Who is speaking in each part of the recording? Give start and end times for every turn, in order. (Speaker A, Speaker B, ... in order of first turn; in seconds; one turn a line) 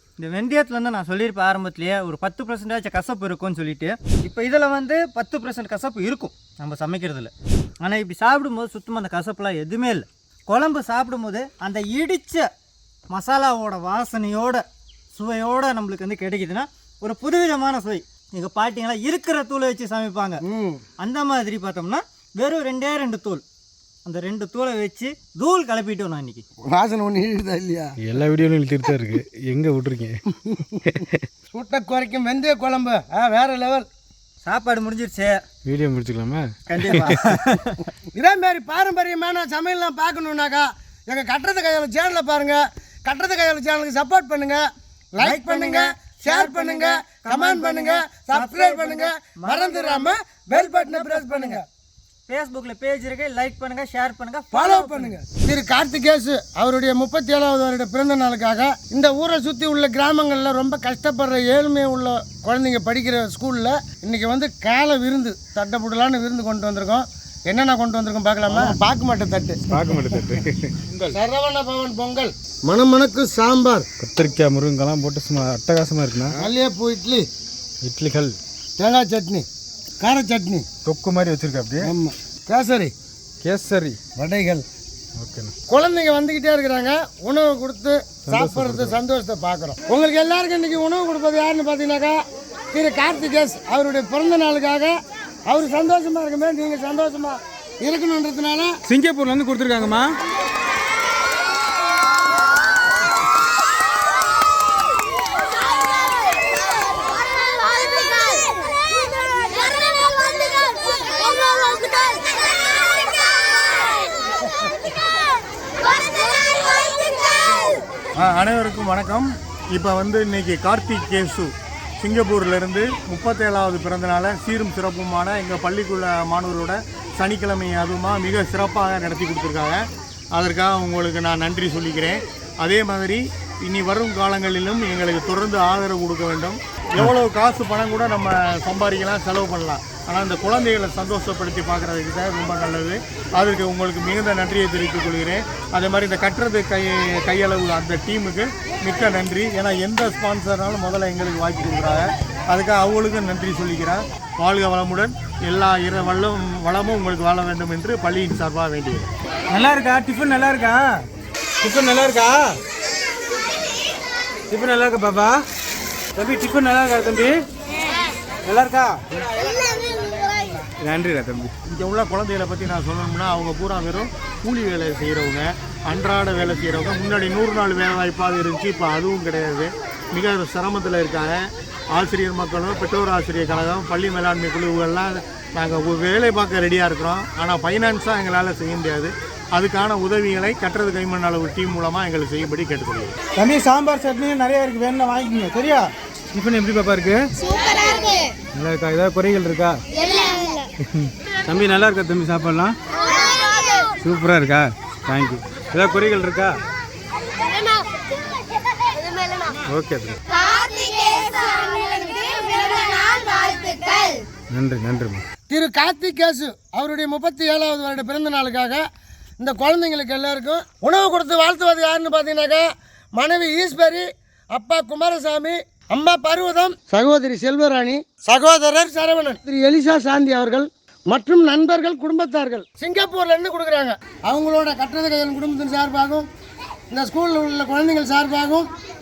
Speaker A: 0.2-12.5
Speaker A: 13.1-20.4
Speaker B: 20.4-20.8
Speaker A: 21.0-23.4
Speaker A: 24.1-26.4
Speaker B: 26.7-27.9
Speaker C: 28.0-31.2
Speaker B: 31.5-33.9
Speaker A: 34.4-35.4
Speaker C: 35.6-37.1
Speaker A: 36.7-37.9
Speaker B: 38.1-51.6
Speaker A: 45.2-51.6
Speaker A: 52.3-55.1
Speaker B: 54.5-69.6
Speaker C: 68.5-68.8
Speaker C: 69.7-71.2
Speaker B: 71.1-73.8
Speaker C: 74.0-76.4
Speaker B: 76.3-77.2
Speaker C: 77.8-78.4
Speaker B: 78.8-79.5
Speaker B: 80.0-80.6
Speaker C: 80.8-81.9
Speaker B: 81.8-82.9
Speaker C: 83.4-84.0
Speaker B: 84.2-84.6
Speaker C: 85.2-85.5
Speaker B: 85.7-92.2
Speaker C: 88.3-89.0
Speaker B: 92.7-95.0
Speaker B: 95.5-98.7
Speaker C: 98.9-100.2
Speaker D: 118.2-129.8
Speaker D: 130.3-159.1
Speaker C: 159.5-161.1
Speaker C: 161.6-162.6
Speaker C: 164.5-165.4
Speaker C: 166.1-167.4
Speaker C: 168.4-169.2
Speaker C: 170.7-171.5
Speaker D: 171.7-193.1
Speaker C: 193.3-197.2
Speaker C: 198.5-199.8
Speaker C: 200.8-202.8
Speaker C: 204.0-206.6
Speaker C: 209.6-210.2
Speaker C: 214.5-215.2
Speaker B: 215.5-218.8
Speaker B: 219.4-222.7
Speaker B: 223.2-236.3
Speaker B: 236.9-238.7